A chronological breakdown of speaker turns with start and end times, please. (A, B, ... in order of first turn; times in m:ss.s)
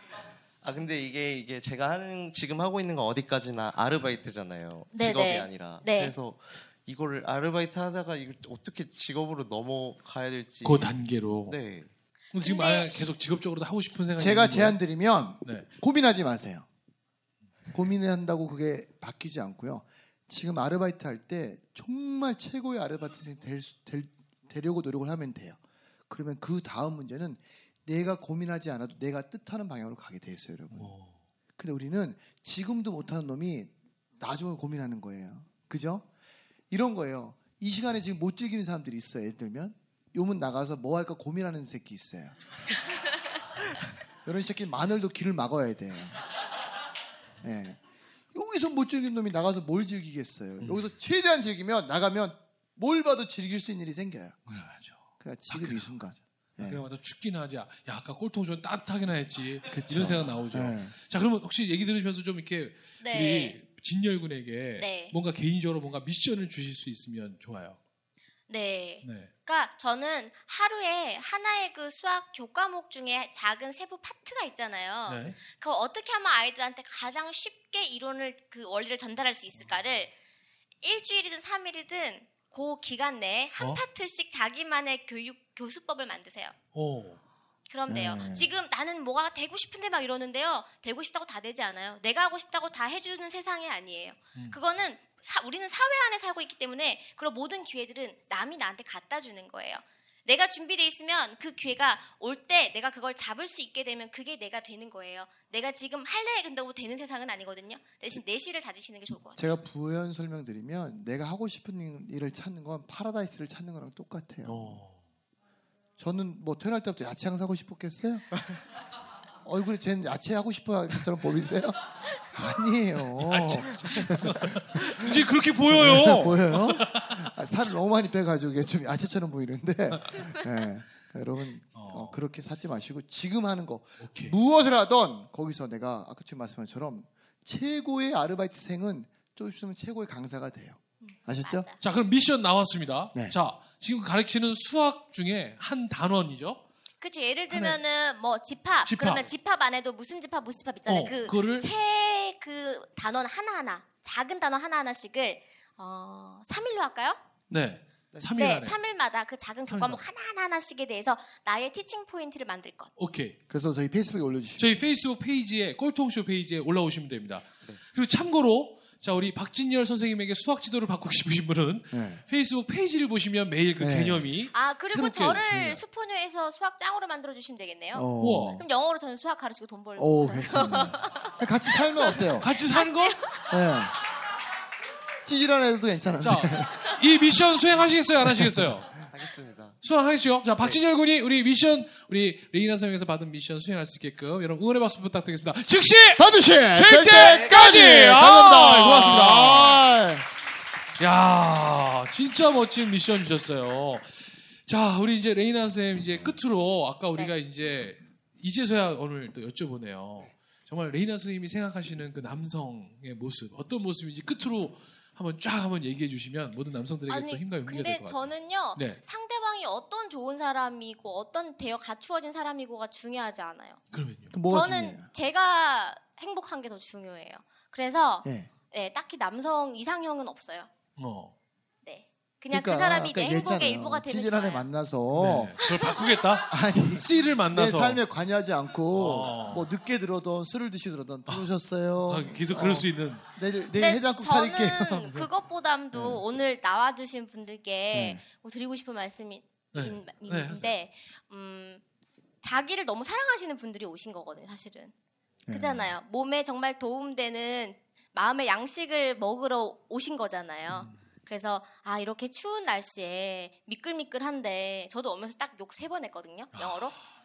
0:00.6-0:11.9 A
0:04.9-0:06.1 B
0:10.6-0:11.6 C
0:12.3-0:14.8 C
0:12.4-0:13.1 B
0:14.2-0:16.7 D
0:17.7-0:30.9 D
0:30.7-0:31.2 C
0:31.6-0:36.1 D
0:36.7-0:42.4 D
0:44.2-0:46.2 D
0:47.4-0:47.8 D
0:48.3-0:54.4 D
0:50.6-0:50.9 C
0:54.5-0:56.1 C
0:55.2-0:56.8 D
0:56.6-1:07.8 C
0:59.7-1:00.9 D
1:03.0-1:03.6 B
1:04.8-1:05.2 B
1:08.5-1:20.1 B
1:09.0-1:09.3 C
1:15.1-1:15.4 C
1:20.8-1:26.6 B
1:26.7-1:27.2 C
1:27.7-1:49.4 B
1:27.9-1:28.6 D
1:49.4-1:54.8 D
1:54.4-1:55.0 C
1:56.0-1:58.3 D
1:59.4-2:21.7 D
2:03.2-2:07.3 C
2:09.9-2:10.4 C
2:11.7-2:12.2 C
2:14.0-2:14.4 C
2:21.0-2:21.8 B
2:21.8-2:26.6 C
2:27.0-2:37.2 B
2:27.5-2:27.8 C
2:28.9-2:29.3 C
2:30.9-2:31.7 C
2:37.5-2:38.8 C
2:38.4-2:42.9 B
2:39.7-2:40.1 C
2:43.0-2:43.4 C
2:43.5-2:44.9 D
2:44.6-2:55.8 C
2:51.9-2:52.2 D
2:53.8-2:54.3 D
2:54.5-3:03.5 B
2:57.9-2:58.7 D
2:58.2-2:58.6 C
3:00.0-3:02.5 D
3:02.4-3:03.2 C
3:03.5-3:04.0 D
3:05.2-3:06.8 D
3:06.2-3:08.9 C
3:08.2-3:08.7 D
3:09.1-3:09.8 A
3:09.8-3:19.9 C
3:16.2-3:20.3 D
3:17.2-3:18.0 A
3:21.0-3:39.0 C
3:37.1-3:43.8 B
3:43.9-3:44.4 C
3:44.3-3:45.1 D
3:44.5-3:50.7 B
3:48.2-3:48.5 D
3:51.0-3:51.3 C
3:51.8-3:54.7 B
3:52.5-3:55.6 D
3:55.1-3:58.0 C
3:55.6-3:56.1 B
3:56.5-4:05.3 D
3:58.9-3:59.7 C
4:02.1-4:03.2 C
4:03.8-4:11.8 B
4:05.9-4:06.2 D
4:07.9-4:08.2 D
4:09.7-4:10.7 C
4:12.4-4:14.9 B
4:15.5-4:15.9 D
4:15.5-4:27.0 B
4:20.7-4:21.0 C
4:26.5-4:26.9 C